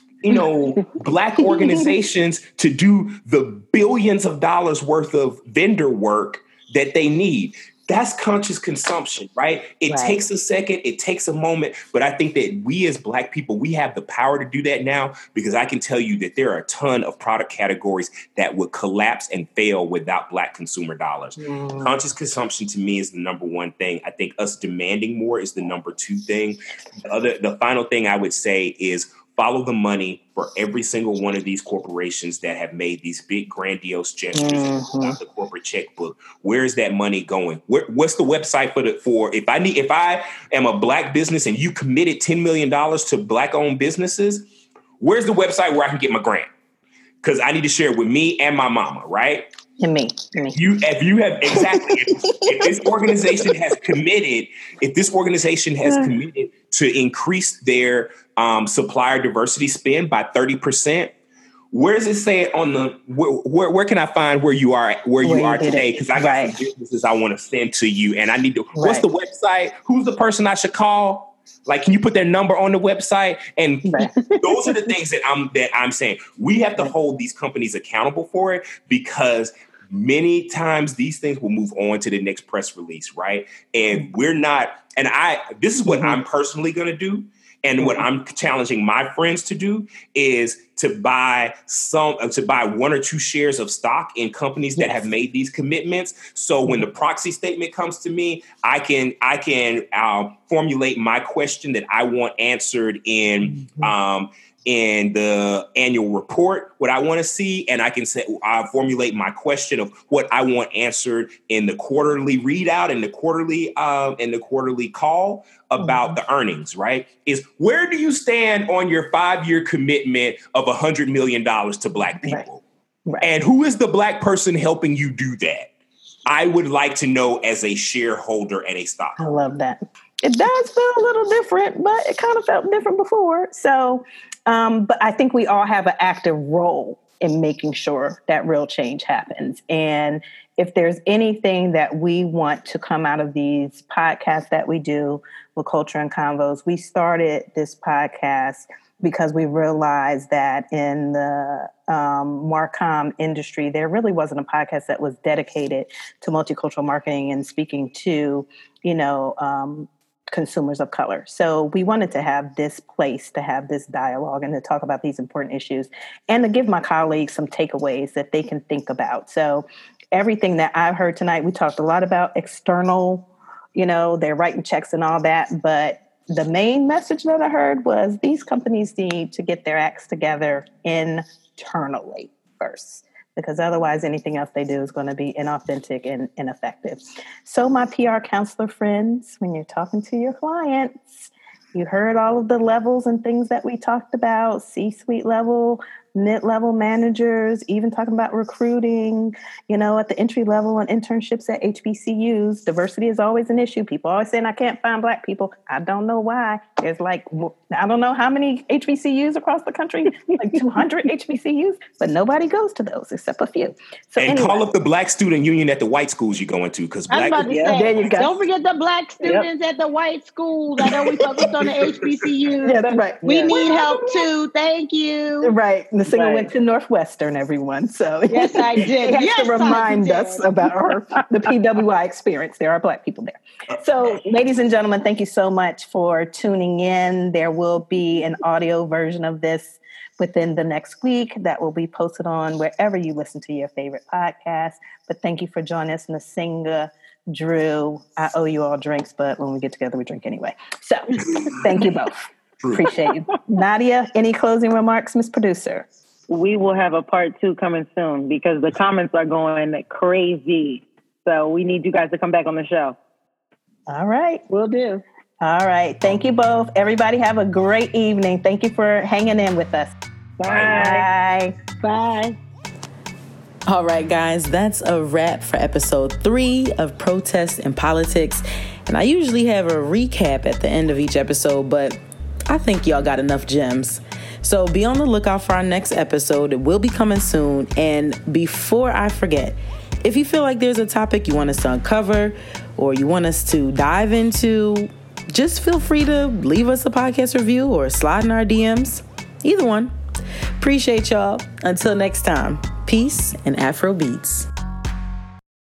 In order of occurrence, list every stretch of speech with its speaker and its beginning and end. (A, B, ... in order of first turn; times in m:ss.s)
0:00.2-0:44.5 A
0:01.5-0:01.9 B
0:09.9-0:10.2 B
0:21.4-0:21.9 B
0:34.3-0:35.2 B
0:45.0-0:46.5 A
0:47.2-0:49.5 A
0:49.8-0:50.6 B
0:50.6-1:01.1 A
0:51.5-0:53.5 B
0:55.8-0:56.1 B
1:01.7-2:02.6 A
1:05.2-1:06.6 B
1:08.8-1:09.1 B
1:13.8-1:14.2 B
1:25.8-1:26.2 B
1:27.8-1:28.0 B
1:34.8-1:35.0 B
1:43.4-1:43.9 B
1:55.8-1:56.2 B
2:03.2-2:05.7 A
2:06.3-2:09.2 A
2:09.2-3:34.7 B
3:34.2-3:37.6 A
3:37.1-3:45.5 C
3:37.5-3:37.8 D
3:37.7-3:38.3 B
3:41.1-3:41.5 A
3:42.6-3:44.1 B
3:45.4-4:12.2 B
3:46.1-3:46.4 D
3:48.3-3:50.5 C
4:11.4-4:11.8 A
4:12.6-4:12.9 A
4:12.7-4:15.9 B
4:16.3-4:23.0 D
4:23.9-4:24.4 B
4:24.5-4:25.0 C
4:25.4-4:29.9 B
4:30.4-4:31.1 C
4:30.6-4:31.6 B
4:31.8-4:32.4 C
4:33.7-4:59.9 E
5:00.6-5:04.5 E